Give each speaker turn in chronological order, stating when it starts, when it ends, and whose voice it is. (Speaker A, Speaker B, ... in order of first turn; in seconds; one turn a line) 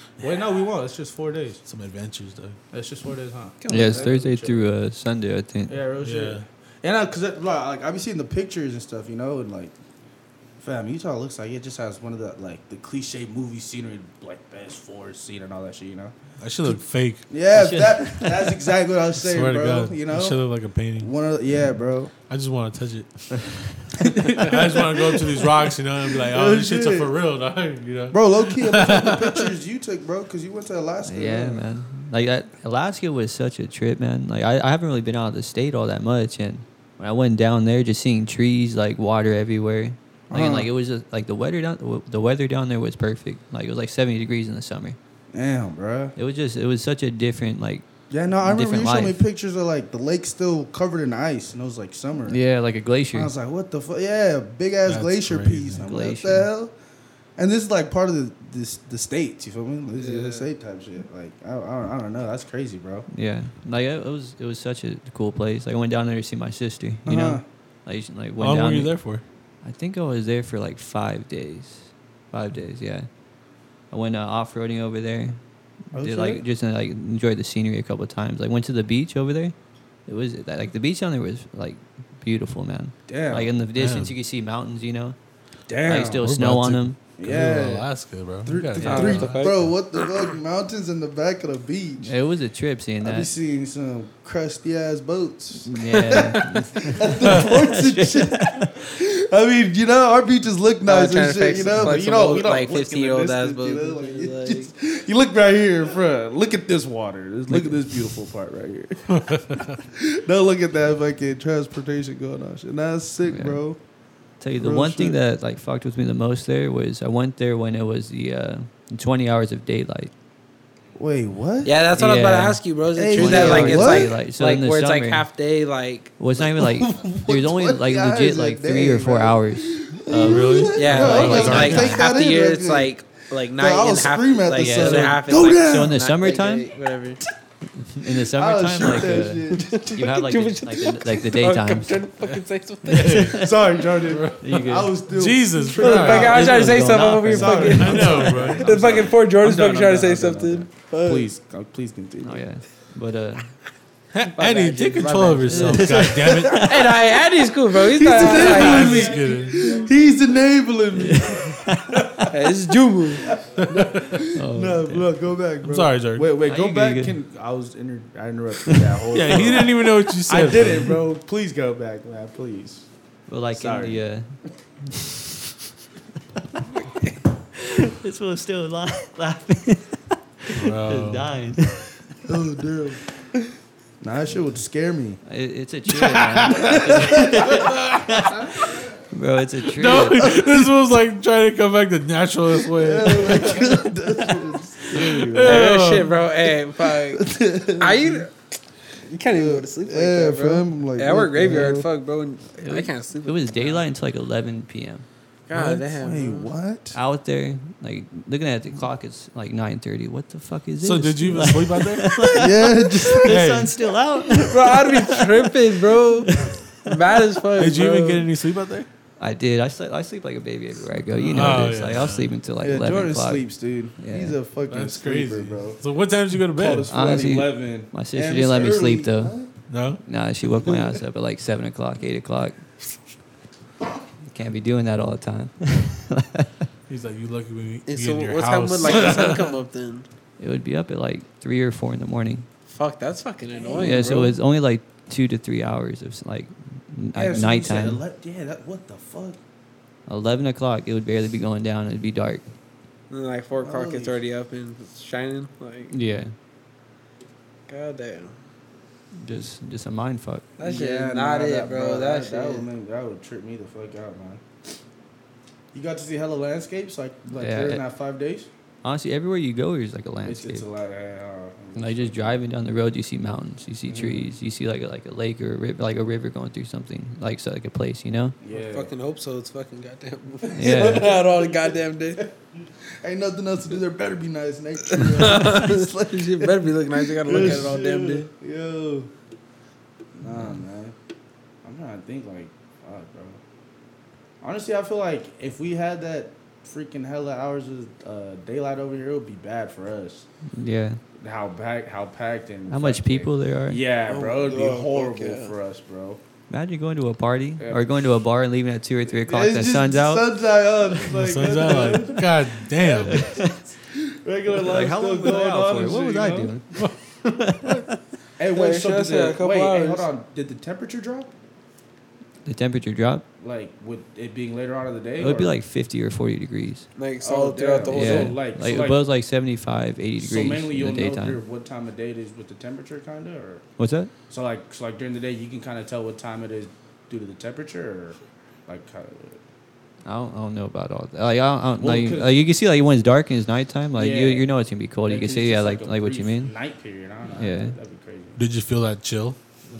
Speaker A: 0.2-1.6
Speaker B: 1.6-2.6
Speaker A: 2.7-4.7
Speaker C: 3.6-4.1
Speaker D: 3.7-5.8
Speaker A: 5.7-9.7
Speaker B: 6.0-6.4
Speaker A: 10.6-20.4
Speaker B: 16.4-17.2
Speaker D: 17.5-18.6
Speaker B: 19.2-21.1
Speaker A: 21.0-22.1
Speaker B: 22.3-29.5
Speaker A: 24.0-27.1
Speaker A: 28.1-31.6
Speaker D: 31.0-45.0
Speaker A: 40.3-40.7
Speaker A: 45.3-46.1
Speaker D: 46.1-47.8
Speaker A: 48.1-52.4
Speaker D: 48.4-49.2
Speaker D: 52.3-53.3
Speaker A: 53.1-56.7
Speaker B: 54.9-55.8
Speaker D: 55.8-56.5
Speaker A: 57.4-63.0
Speaker C: 60.0-60.5
Speaker D: 63.1-68.9
Speaker A: 67.0-67.4
Speaker B: 68.4-69.2
Speaker D: 69.6-73.1
Speaker D: 73.9-75.4
Speaker A: 75.9-76.4
Speaker D: 75.9-79.5
Speaker D: 80.1-85.2
Speaker A: 83.1-83.5
Speaker B: 83.8-84.1
Speaker A: 85.7-86.2
Speaker D: 85.8-87.0
Speaker B: 86.1-89.6
Speaker A: 87.2-87.9
Speaker A: 88.4-92.1
Speaker D: 88.8-89.2
Speaker C: 88.8-89.7
Speaker D: 92.0-93.3
Speaker A: 93.0-113.8
Speaker D: 95.7-98.8
Speaker C: 100.8-104.7
Speaker D: 107.5-107.8
Speaker B: 109.1-109.8
Speaker D: 113.2-113.6
Speaker D: 114.4-120.1
Speaker A: 114.6-115.2
Speaker A: 121.0-121.7
Speaker C: 121.6-126.2
Speaker D: 121.9-122.6
Speaker A: 122.9-124.1
Speaker D: 123.1-125.2
Speaker D: 126.2-132.1
Speaker A: 126.4-132.9
Speaker B: 130.2-131.9
Speaker C: 130.7-137.2
Speaker A: 133.5-136.0
Speaker D: 134.6-136.7
Speaker D: 137.8-142.0
Speaker A: 138.1-140.1
Speaker C: 139.5-143.3
Speaker B: 142.2-144.5
Speaker D: 142.8-145.0
Speaker A: 143.3-152.4
Speaker B: 145.1-147.0
Speaker C: 145.7-151.2
Speaker D: 145.8-148.6
Speaker B: 147.7-148.9
Speaker D: 152.2-153.5
Speaker B: 154.1-156.7
Speaker C: 154.3-156.0
Speaker D: 155.5-157.0
Speaker C: 156.5-159.3
Speaker A: 157.8-162.4
Speaker B: 158.1-159.7
Speaker D: 161.0-162.1
Speaker C: 162.3-163.3
Speaker A: 163.2-172.9
Speaker B: 163.6-164.2
Speaker D: 164.3-165.1
Speaker B: 165.6-166.3
Speaker D: 166.4-167.2
Speaker B: 169.1-171.0
Speaker D: 173.3-174.2
Speaker A: 173.5-174.0
Speaker D: 174.9-175.3
Speaker D: 177.6-181.9
Speaker B: 180.5-181.3
Speaker A: 182.2-183.0
Speaker A: 184.0-185.2
Speaker D: 185.2-190.3
Speaker B: 185.9-188.3
Speaker A: 186.7-187.5
Speaker B: 189.7-193.9
Speaker A: 190.2-190.7
Speaker A: 192.6-195.7
Speaker B: 194.9-196.2
Speaker C: 195.4-198.3
Speaker A: 197.0-198.2
Speaker C: 199.1-203.8
Speaker A: 199.3-201.9
Speaker D: 202.6-205.0
Speaker C: 205.5-206.5
Speaker A: 205.7-207.0
Speaker D: 206.9-215.7
Speaker B: 210.8-212.3
Speaker A: 212.2-213.5
Speaker B: 213.2-213.7
Speaker C: 214.4-216.3
Speaker D: 216.2-216.9
Speaker C: 216.8-218.3
Speaker B: 217.6-218.9
Speaker D: 219.2-224.3
Speaker B: 221.3-222.3
Speaker A: 222.6-225.8
Speaker B: 224.7-226.9
Speaker A: 226.4-229.5
Speaker D: 226.9-229.3
Speaker B: 229.7-230.0
Speaker D: 230.0-232.6
Speaker D: 234.3-236.5
Speaker B: 236.9-239.5
Speaker C: 237.8-240.1
Speaker D: 240.4-242.4
Speaker C: 242.7-244.3
Speaker A: 243.5-244.3
Speaker D: 243.8-248.0
Speaker A: 247.2-249.4
Speaker D: 250.1-252.4
Speaker C: 253.1-255.9
Speaker A: 253.6-254.2
Speaker D: 255.9-256.3
Speaker C: 257.7-258.4
Speaker D: 259.2-260.4
Speaker C: 260.6-262.6
Speaker A: 260.6-264.4
Speaker A: 265.7-268.5
Speaker D: 267.3-267.8
Speaker D: 268.8-270.6
Speaker A: 270.2-272.4
Speaker D: 271.8-278.4
Speaker A: 273.9-274.3
Speaker A: 278.4-278.9
Speaker C: 278.5-282.2
Speaker D: 280.5-281.1
Speaker A: 280.6-281.5
Speaker A: 283.0-289.1
Speaker C: 284.9-288.3
Speaker A: 290.2-290.9
Speaker D: 290.3-290.5
Speaker A: 291.6-293.4
Speaker A: 294.4-300.2
Speaker D: 300.5-301.0
Speaker A: 301.2-306.2
Speaker D: 302.7-303.8
Speaker C: 304.1-305.5
Speaker D: 306.5-310.3
Speaker A: 307.6-307.9
Speaker A: 309.1-316.5
Speaker B: 311.0-313.3
Speaker D: 313.1-313.6
Speaker D: 314.6-317.9
Speaker A: 318.4-321.3
Speaker C: 318.5-320.1
Speaker D: 322.4-323.2
Speaker A: 323.4-325.5
Speaker D: 325.2-326.9
Speaker C: 327.0-328.4
Speaker A: 327.2-329.0
Speaker D: 327.9-331.4
Speaker A: 330.2-333.6
Speaker D: 333.8-334.1
Speaker A: 334.3-339.4
Speaker D: 340.0-346.5
Speaker A: 341.8-342.4
Speaker A: 343.9-344.5
Speaker A: 345.0-348.4
Speaker D: 347.4-347.7
Speaker B: 348.4-349.4